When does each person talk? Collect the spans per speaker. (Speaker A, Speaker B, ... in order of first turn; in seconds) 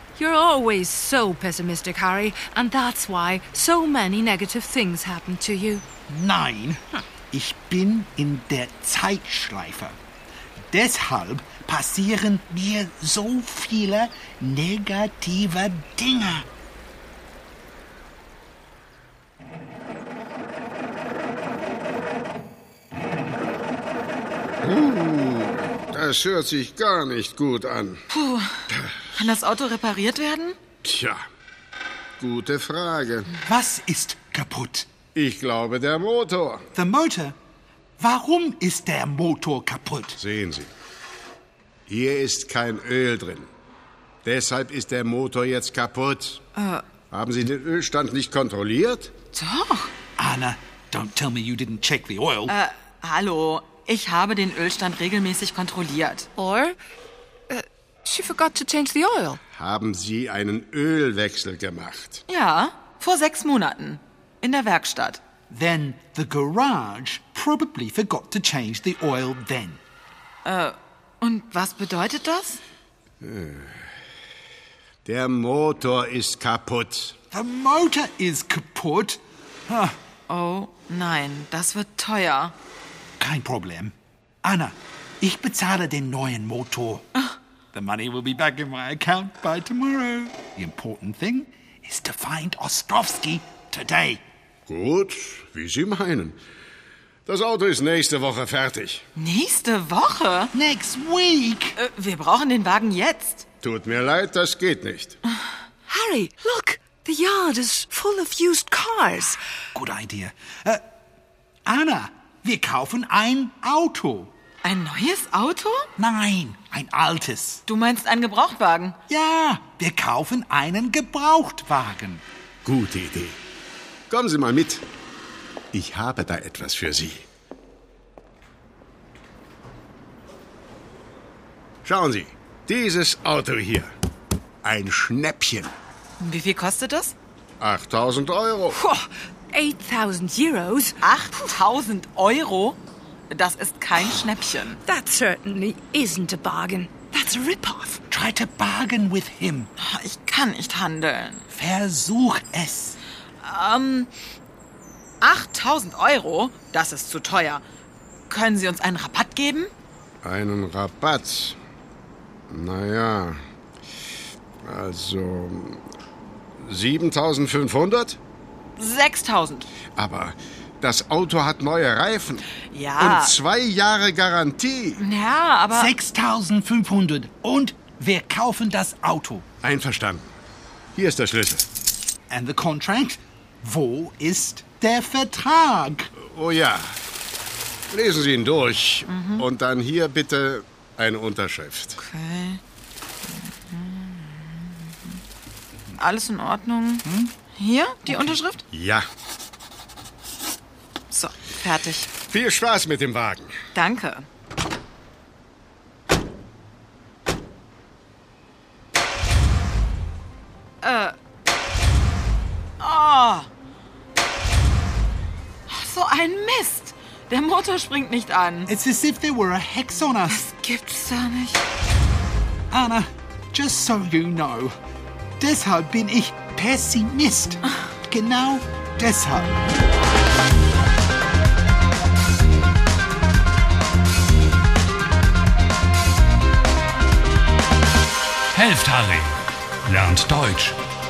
Speaker A: 0.1-5.8, 56.4-56.8, 57.5-59.4, 105.9-109.4, 138.7-141.0, 144.8-148.0
Speaker B: 6.1-10.0, 10.7-16.5, 33.4-34.9, 36.7-37.4, 38.0-40.2, 50.2-52.5, 65.5-69.8, 77.3-80.0, 83.2-94.2, 100.5-101.8, 109.7-110.8, 111.7-114.3, 116.0-117.6, 119.1-122.2, 148.1-149.7, 151.5-153.0, 175.7-179.4, 182.3-186.1, 197.1-197.3, 218.7-220.4, 222.7-224.7, 225.4-229.6
Speaker C: 24.6-28.0, 28.7-29.1, 30.8-31.2, 32.2-33.3, 35.1-36.7, 40.2-40.7, 41.9-43.5, 44.2-46.4, 47.1-49.1, 59.5-62.2, 73.2-73.8, 75.0-77.2, 94.7-96.4, 97.2-99.0, 103.6-105.2, 122.6-123.4, 124.1-124.8, 125.7-127.2, 131.8-133.9, 134.6-135.7, 137.6-138.8, 160.2-161.6, 162.5-163.4, 164.6-165.8, 166.6-168.2, 169.9-175.0, 179.6-180.3, 180.9-181.6, 186.2-186.9, 187.9-192.0, 198.7-199.1, 202.2-203.6
Speaker D: 28.1-30.6, 46.5-46.8, 49.3-49.9, 52.5-56.3, 62.3-65.2, 70.4-72.6, 80.3-82.5, 99.2-100.5, 101.8-103.5, 114.6-115.9, 117.7-119.0, 136.2-137.1, 141.0-142.8, 143.3-144.8, 149.8-151.4, 153.4-154.1, 155.2-157.6, 158.3-159.7, 168.8-169.7, 172.7-173.3, 175.0-175.9, 189.1-189.4, 192.0-192.6, 193.4-195.2, 196.0-198.6, 201.1-202.1, 203.7-204.3, 210.8-211.1, 212.8-213.5, 215.7-218.7, 220.3-221.6
Speaker E: 238.5-240.8